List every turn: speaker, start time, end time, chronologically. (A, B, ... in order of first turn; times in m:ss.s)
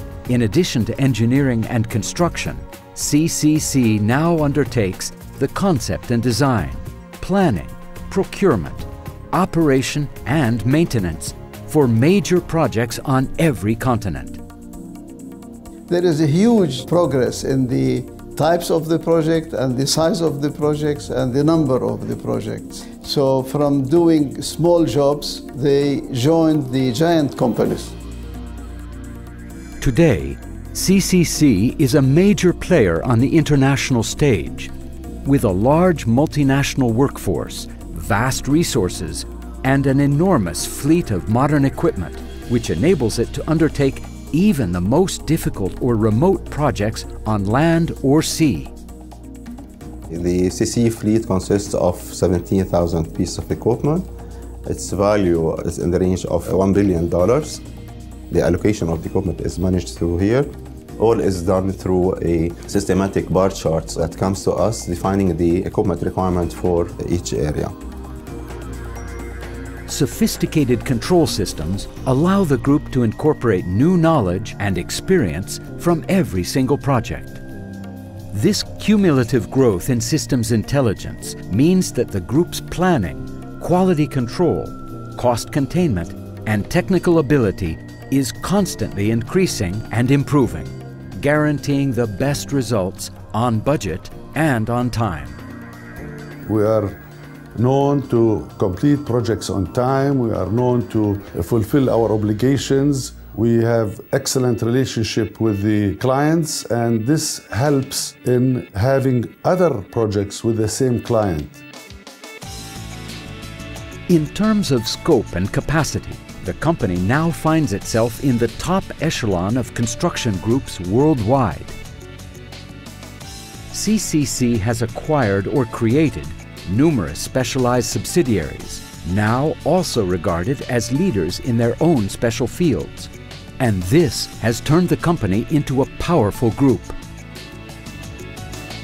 0:00.3-0:14.4 A
0:15.9-0:28.0 B
0:29.8-0:34.7 A
0:35.2-0:48.7 A
0:50.1-0:54.1 C
0:54.7-0:57.6 C
0:58.3-1:07.8 C
1:09.9-1:17.4 A
1:18.3-1:35.4 A
1:36.5-1:37.0 D
1:37.6-1:51.6 D
1:54.1-2:01.8 A
2:03.7-2:17.0 A